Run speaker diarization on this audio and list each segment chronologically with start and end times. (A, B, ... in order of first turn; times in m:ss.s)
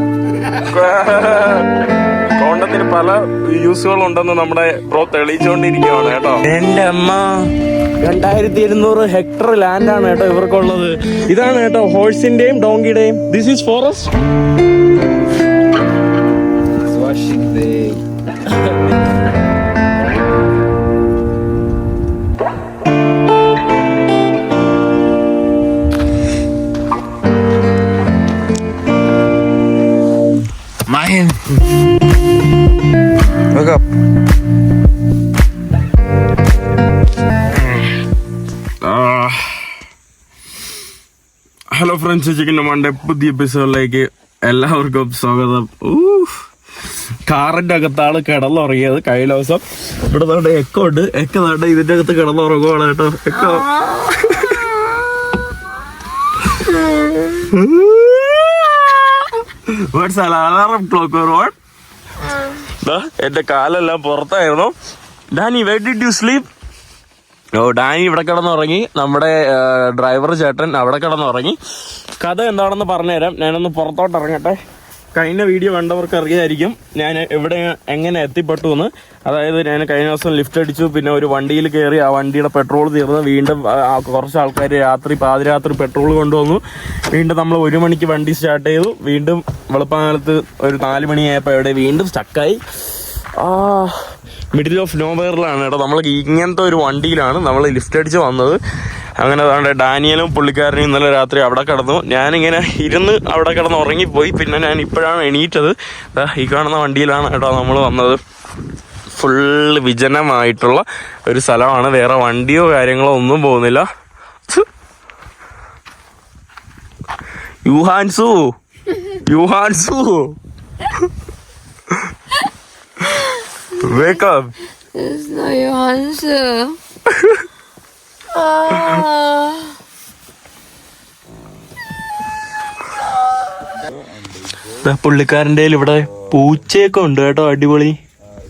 0:00.6-0:01.7 A
0:02.4-0:07.3 A
0:08.0-0:14.1 A
0:16.8-0:18.0 B
0:30.9-0:31.5 B
0:33.5-0:33.8 B
0:38.8-0:39.7 A
0:41.7-0:46.4 A
0:47.3-0:54.7 A
0:53.5-0:54.1 C
0:57.0-1:01.6 A
1:02.8-1:04.7 A
1:05.3-1:06.5 A
1:07.5-1:11.6 A
1:12.2-1:14.6 A
1:15.1-1:32.6 A
1:33.4-1:34.0 A
1:34.5-1:38.6 A
1:39.2-1:48.2 A
1:49.1-1:53.9 A
1:57.6-1:58.4 A
1:59.1-2:00.4 A
2:03.8-2:04.5 A
2:05.0-2:06.8 C
2:07.1-2:07.4 A
2:08.3-2:09.8 C
2:14.7-2:18.0 A